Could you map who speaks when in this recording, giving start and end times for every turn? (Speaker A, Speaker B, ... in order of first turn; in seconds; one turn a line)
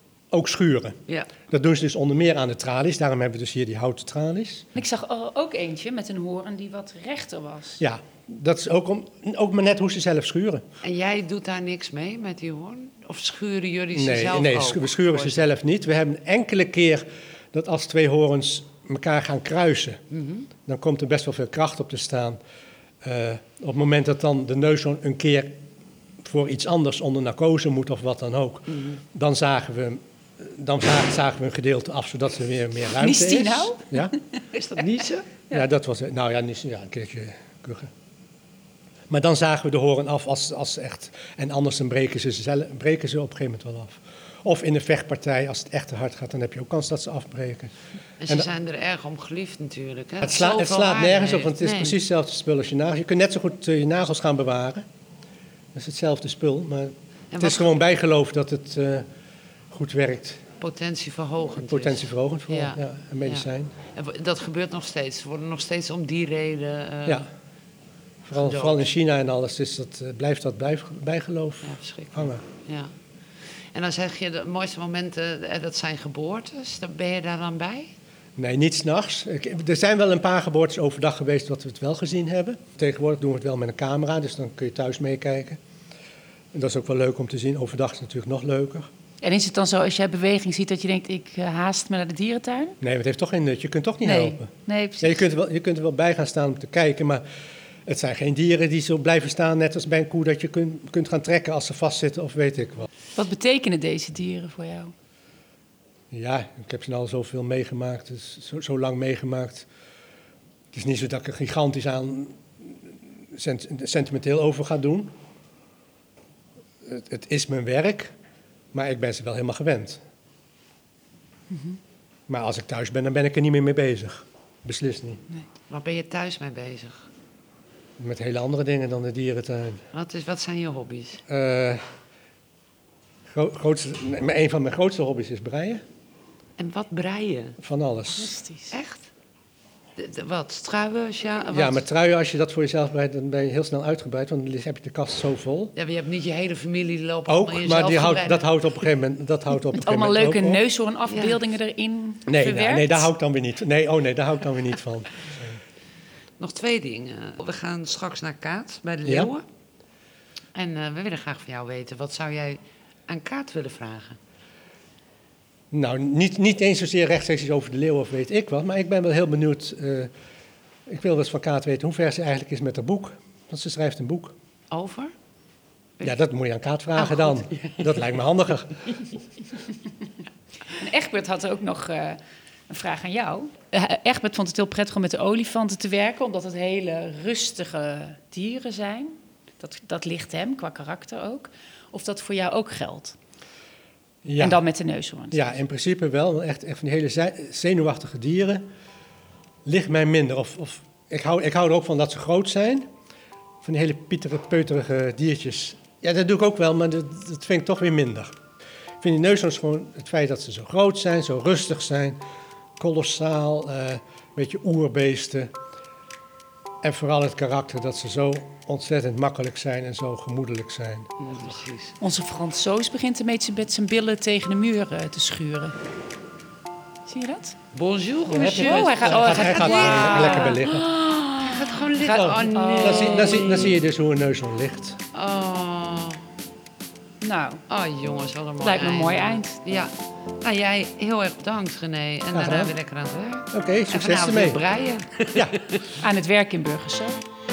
Speaker A: 0.3-1.0
Speaker A: 1.5-4.7
Speaker B: 4.8-7.8
Speaker A: 7.8-10.6
Speaker C: 10.8-15.5
Speaker A: 13.9-20.0
Speaker C: 20.1-20.5
Speaker A: 20.7-22.4
Speaker A: 23.0-25.5
Speaker A: 26.2-34.1
Speaker C: 28.7-29.0
Speaker B: 33.0-34.4
Speaker C: 34.5-35.2
Speaker A: 34.8-37.9
Speaker A: 39.1-47.7
Speaker C: 48.2-52.0
Speaker A: 50.2-54.8
Speaker A: 55.8-59.1
Speaker C: 57.3-57.8
Speaker A: 59.7-60.4
Speaker C: 60.6-67.2
Speaker A: 61.6-63.7
Speaker A: 68.3-72.4
Speaker C: 68.3-68.9
Speaker C: 71.6-72.9
Speaker C: 73.7-77.9
Speaker A: 78.4-85.6
Speaker A: 86.5-88.9
Speaker B: 89.2-92.8
Speaker A: 92.8-94.5
Speaker B: 94.0-95.2
Speaker A: 95.0-97.2
Speaker A: 97.9-102.9
Speaker B: 103.2-104.9
Speaker A: 106.1-109.7
Speaker A: 110.7-112.4
Speaker A: 113.3-115.1
Speaker A: 116.8-118.1
Speaker A: 118.7-120.0
Speaker B: 121.5-121.8
Speaker A: 122.3-125.2
Speaker C: 125.7-127.1
Speaker A: 128.0-129.8
Speaker C: 129.9-131.2
Speaker A: 131.3-131.8
Speaker A: 133.3-135.8
Speaker C: 136.6-137.6
Speaker A: 137.6-138.4
Speaker B: 138.2-138.7
Speaker C: 138.7-139.1
Speaker C: 140.0-141.8
Speaker A: 141.5-145.7
Speaker C: 145.8-148.5
Speaker A: 147.3-150.6
Speaker B: 149.8-153.1
Speaker C: 151.1-151.4
Speaker A: 152.3-155.6
Speaker C: 156.4-159.4
Speaker A: 159.1-159.3
Speaker C: 160.5-164.2
Speaker A: 165.7-170.1
Speaker A: 170.9-174.3
Speaker C: 174.7-175.1
Speaker A: 176.0-178.8
Speaker C: 176.9-178.2
Speaker B: 180.7-182.2
Speaker B: 182.7-193.2
Speaker A: 194.2-194.6
Speaker B: 194.4-195.4
Speaker A: 195.3-198.6
Speaker A: 199.6-202.9
Speaker A: 203.6-208.3
Speaker A: 209.0-212.2
Speaker A: 212.8-215.5
Speaker A: 216.8-221.1
Speaker C: 221.2-222.0
Speaker B: 222.0-225.8
Speaker B: 227.1-227.6
Speaker C: 227.7-230.6
Speaker B: 228.3-233.8
Speaker A: 228.3-230.9
Speaker C: 231.4-233.8
Speaker A: 232.1-235.0
Speaker C: 235.1-236.2
Speaker B: 237.2-237.6
Speaker C: 237.7-245.9
Speaker B: 238.6-239.6
Speaker A: 242.3-242.8
Speaker A: 243.5-244.6
Speaker B: 246.0-247.2